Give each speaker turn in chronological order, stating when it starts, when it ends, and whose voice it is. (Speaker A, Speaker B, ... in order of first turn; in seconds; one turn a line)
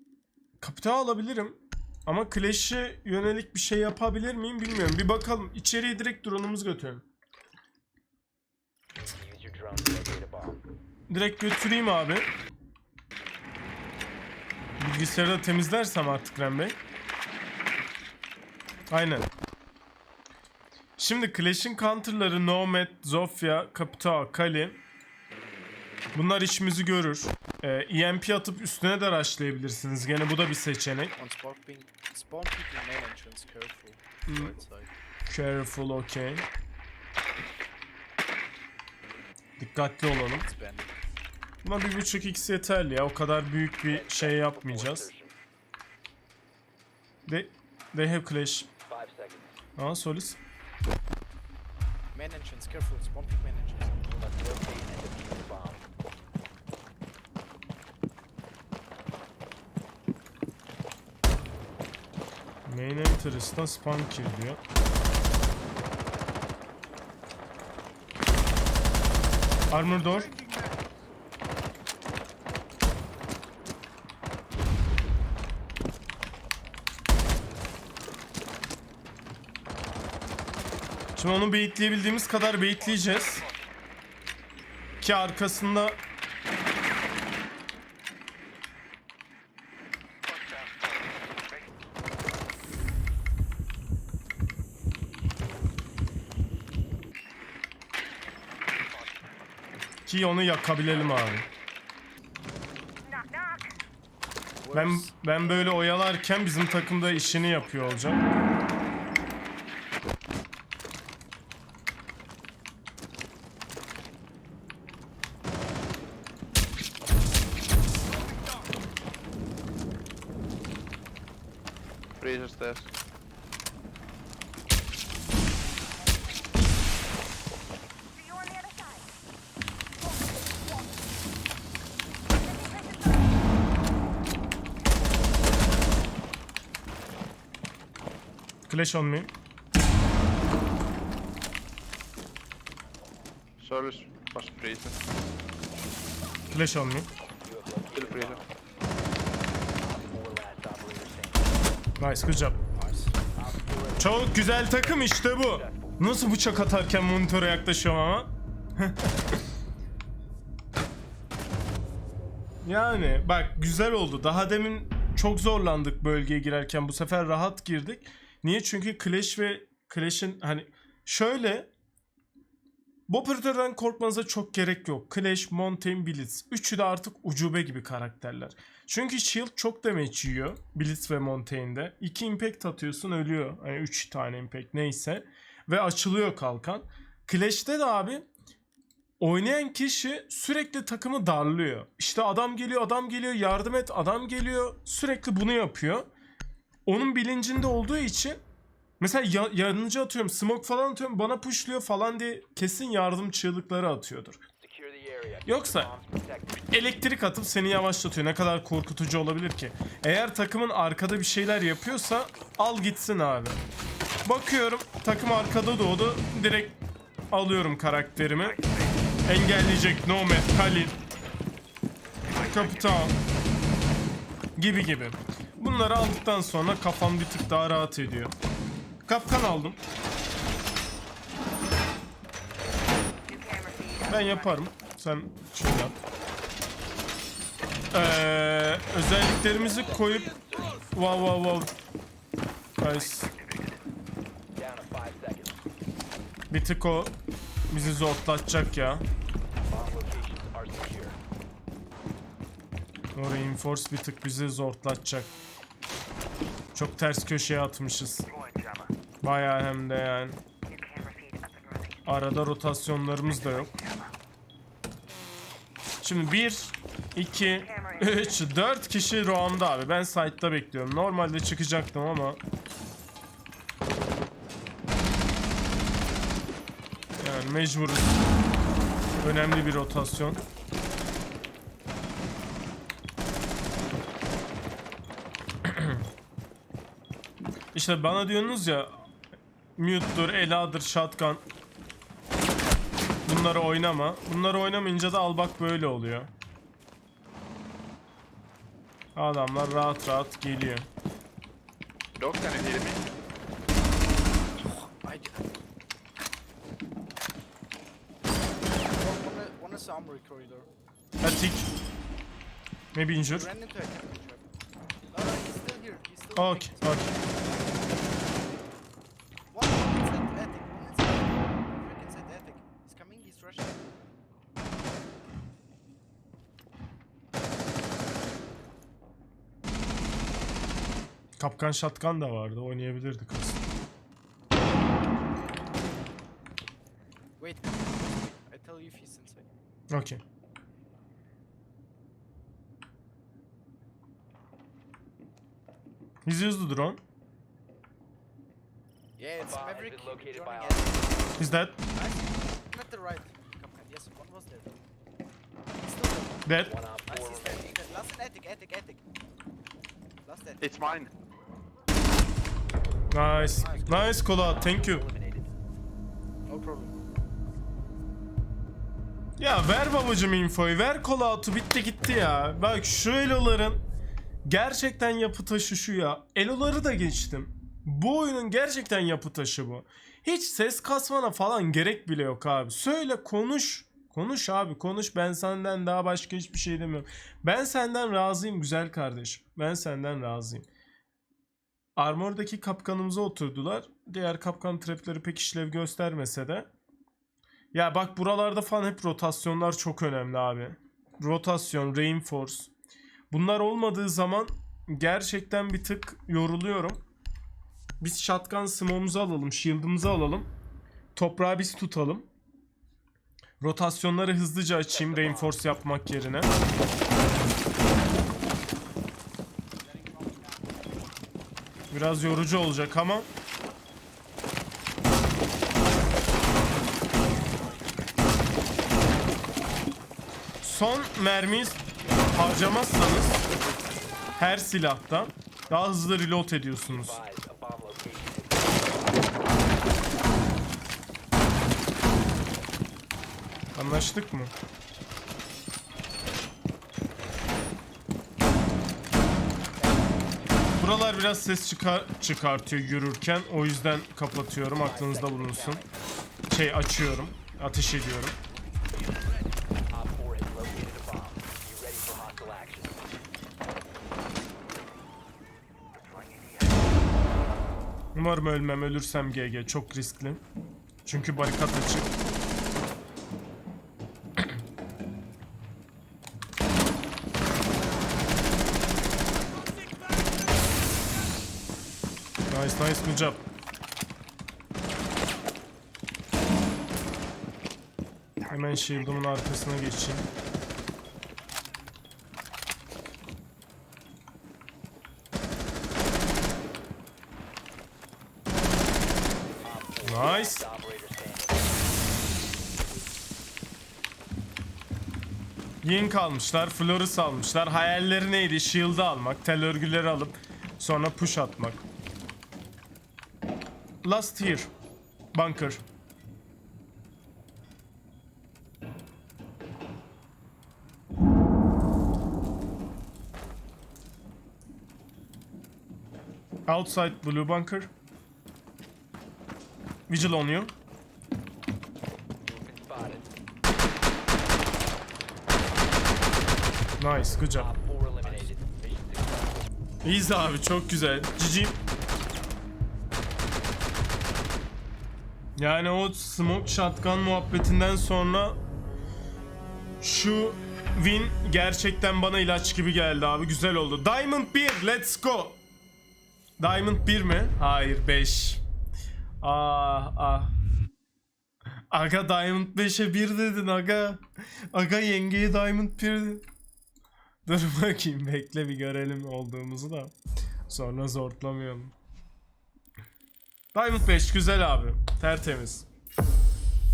Speaker A: 0.6-7.0
Speaker B: 9.0-10.6
Speaker A: 11.1-12.3
Speaker A: 14.8-16.8
Speaker A: 18.9-19.3
Speaker A: 21.0-24.8
Speaker A: 26.1-31.1
Speaker C: 31.2-34.9
Speaker A: 34.3-34.5
Speaker A: 35.3-36.5
Speaker A: 39.6-40.5
Speaker C: 40.4-40.9
Speaker A: 41.6-45.1
Speaker B: 43.9-45.3
Speaker A: 47.3-48.7
Speaker B: 48.9-49.5
Speaker A: 49.8-50.4
Speaker C: 52.1-54.1
Speaker B: 54.1-55.8
Speaker A: 62.7-64.6
Speaker A: 69.7-70.4
Speaker A: 81.2-83.4
Speaker B: 82.9-83.5
Speaker A: 85.0-86.0
Speaker B: 90.3-91.4
Speaker A: 100.1-101.5
Speaker B: 103.2-103.6
Speaker C: 104.6-105.7
Speaker A: 104.7-108.2
Speaker B: 107.2-107.5
Speaker D: 122.2-122.9
Speaker A: 138.7-139.3
Speaker D: 143.6-144.9
Speaker A: 146.5-147.1
Speaker B: 147.4-148.5
Speaker D: 147.9-148.4
Speaker B: 149.8-151.5
Speaker A: 152.0-152.6
Speaker C: 152.7-153.2
Speaker B: 153.4-156.0
Speaker A: 154.0-159.0
Speaker A: 162.6-171.7
Speaker A: 173.1-188.2
Speaker A: 189.2-196.1
Speaker A: 196.8-198.4
Speaker A: 199.0-204.4
Speaker B: 204.6-206.7
Speaker A: 205.4-205.9
Speaker A: 206.7-213.6
Speaker A: 214.2-216.8
Speaker A: 217.3-218.6
Speaker A: 219.3-221.0
Speaker A: 222.3-223.1
Speaker A: 224.6-228.3
Speaker A: 229.1-229.8
Speaker B: 233.4-234.0
Speaker A: 234.1-236.0
Speaker A: 237.9-241.7
Speaker B: 239.8-241.0
Speaker A: 242.8-243.3
Speaker B: 244.6-245.6
Speaker A: 246.5-247.1
Speaker A: 247.7-249.1
Speaker B: 249.7-251.2
Speaker A: 253.1-255.3
Speaker A: 256.7-258.3
Speaker A: 259.2-260.4
Speaker A: 262.0-263.7
Speaker A: 266.0-272.4
Speaker A: 277.2-278.2
Speaker A: 279.2-280.4
Speaker A: 287.7-289.0
Speaker A: 289.8-291.4
Speaker A: 293.2-296.3
Speaker A: 299.1-300.9
Speaker D: 302.2-303.1
Speaker C: 304.6-305.5
Speaker C: 308.8-310.7
Speaker A: 311.2-311.7
Speaker A: 312.9-313.5
Speaker C: 313.2-314.5
Speaker C: 315.1-317.5
Speaker A: 316.4-317.1
Speaker C: 319.5-323.9
Speaker A: 331.4-333.6
Speaker C: 337.4-339.5
Speaker A: 339.9-340.2
Speaker A: 346.2-347.0
Speaker C: 349.2-351.3
Speaker B: 349.4-351.3
Speaker A: 351.4-351.8
Speaker C: 351.9-354.8
Speaker C: 355.8-356.4
Speaker A: 356.4-356.7
Speaker B: 356.6-357.8
Speaker C: 357.1-359.0
Speaker C: 360.2-361.1
Speaker D: 360.6-361.1
Speaker A: 363.1-365.1
Speaker C: 363.3-364.3
Speaker B: 363.4-365.5
Speaker C: 366.5-366.9
Speaker A: 369.4-373.8
Speaker A: 374.4-390.7
Speaker A: 392.0-396.7
Speaker A: 397.7-402.7
Speaker A: 403.3-407.0
Speaker A: 408.0-410.5
Speaker A: 411.1-412.3
Speaker A: 413.6-416.5
Speaker B: 414.9-415.5
Speaker A: 421.9-423.3
Speaker A: 430.6-433.4
Speaker A: 434.4-437.2
Speaker B: 436.9-439.0
Speaker A: 443.7-444.5
Speaker A: 450.8-455.8
Speaker B: 454.8-455.9
Speaker A: 456.5-458.4
Speaker B: 459.9-463.0
Speaker B: 466.1-466.9
Speaker A: 468.1-470.4
Speaker A: 471.0-472.1
Speaker A: 482.5-483.4
Speaker A: 488.5-490.2
Speaker B: 499.6-501.7
Speaker A: 500.0-500.6
Speaker A: 505.8-511.8
Speaker A: 514.0-514.7
Speaker A: 515.3-515.8
Speaker A: 526.7-527.9
Speaker A: 530.1-530.7
Speaker B: 532.4-533.3
Speaker A: 537.0-537.7
Speaker B: 537.4-539.6
Speaker A: 540.0-541.8
Speaker A: 545.6-548.6
Speaker A: 550.0-555.6
Speaker A: 556.6-558.6
Speaker A: 559.4-560.5
Speaker A: 561.9-566.4
Speaker A: 567.4-570.1
Speaker A: 570.7-571.9
Speaker A: 573.7-575.9